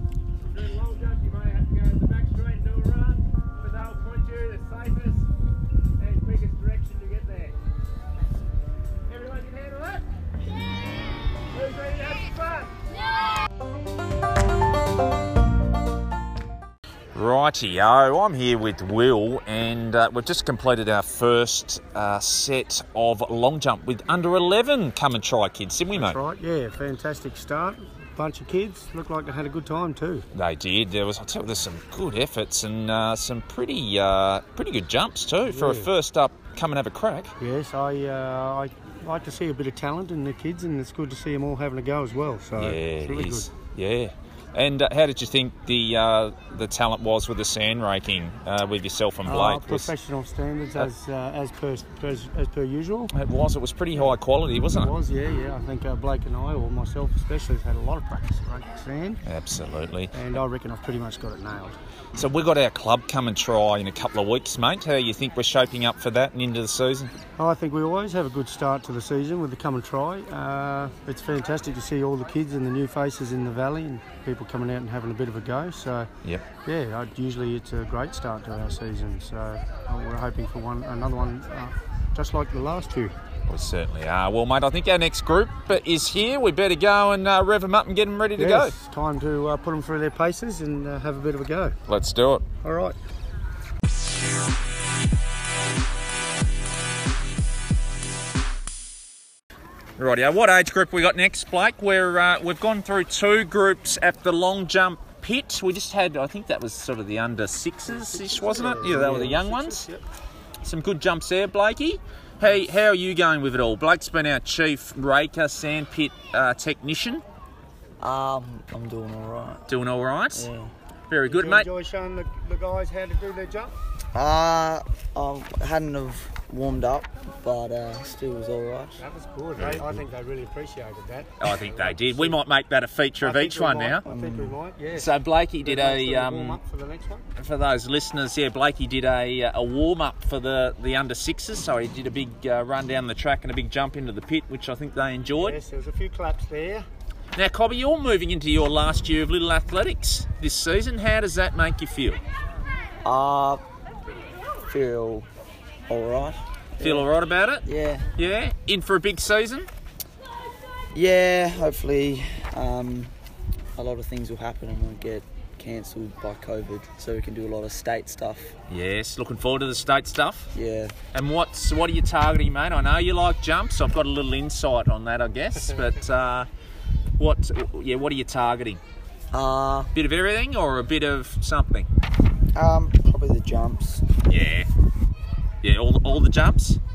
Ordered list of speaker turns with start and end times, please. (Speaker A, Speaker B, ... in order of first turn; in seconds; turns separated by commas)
Speaker A: 0.5-5.3, Speaker A: 6.0-7.6, Speaker A: 9.1-10.0, Speaker A: 11.5-12.8, Speaker B: 17.1-26.2, Speaker C: 25.9-30.3, Speaker B: 30.3-37.3, Speaker C: 35.4-35.9, Speaker C: 37.4-43.5, Speaker B: 42.6-49.9, Speaker C: 49.2-53.1, Speaker B: 53.1-54.9, Speaker C: 54.7-59.2, Speaker B: 59.3-60.1, Speaker C: 60.1-61.8, Speaker B: 62.2-67.1, Speaker C: 67.4-76.1, Speaker C: 76.6-83.1, Speaker B: 83.5-88.8, Speaker C: 88.3-91.8, Speaker B: 91.9-92.5, Speaker C: 92.6-93.0, Speaker B: 100.0-109.9, Speaker C: 107.9-110.0, Speaker B: 110.6-117.2, Speaker D: 118.0-119.7, Speaker B: 119.7-120.5, Speaker D: 120.3-120.7, Speaker B: 121.1-121.7, Speaker C: 121.2-123.7, Speaker D: 124.1-129.0, Speaker C: 129.0-132.4, Speaker B: 129.6-129.9, Speaker B: 131.4-134.1, Speaker C: 133.2-137.2, Speaker D: 134.1-134.6, Speaker B: 134.9-136.6, Speaker B: 137.4-145.6, Speaker C: 145.4-146.8, Speaker B: 147.3-152.2, Speaker D: 153.0-153.6, Speaker D: 154.7-155.3, Speaker D: 155.9-157.1, Speaker B: 156.8-157.6, Speaker D: 157.7-158.1, Speaker B: 158.2-159.7, Speaker D: 160.9-163.1, Speaker D: 163.8-168.6, Speaker B: 168.7-170.5, Speaker D: 170.5-170.9, Speaker B: 171.1-176.5, Speaker B: 177.2-178.8, Speaker D: 179.3-179.9, Speaker B: 179.9-181.9, Speaker D: 182.6-184.5, Speaker B: 184.3-184.7, Speaker B: 185.6-186.8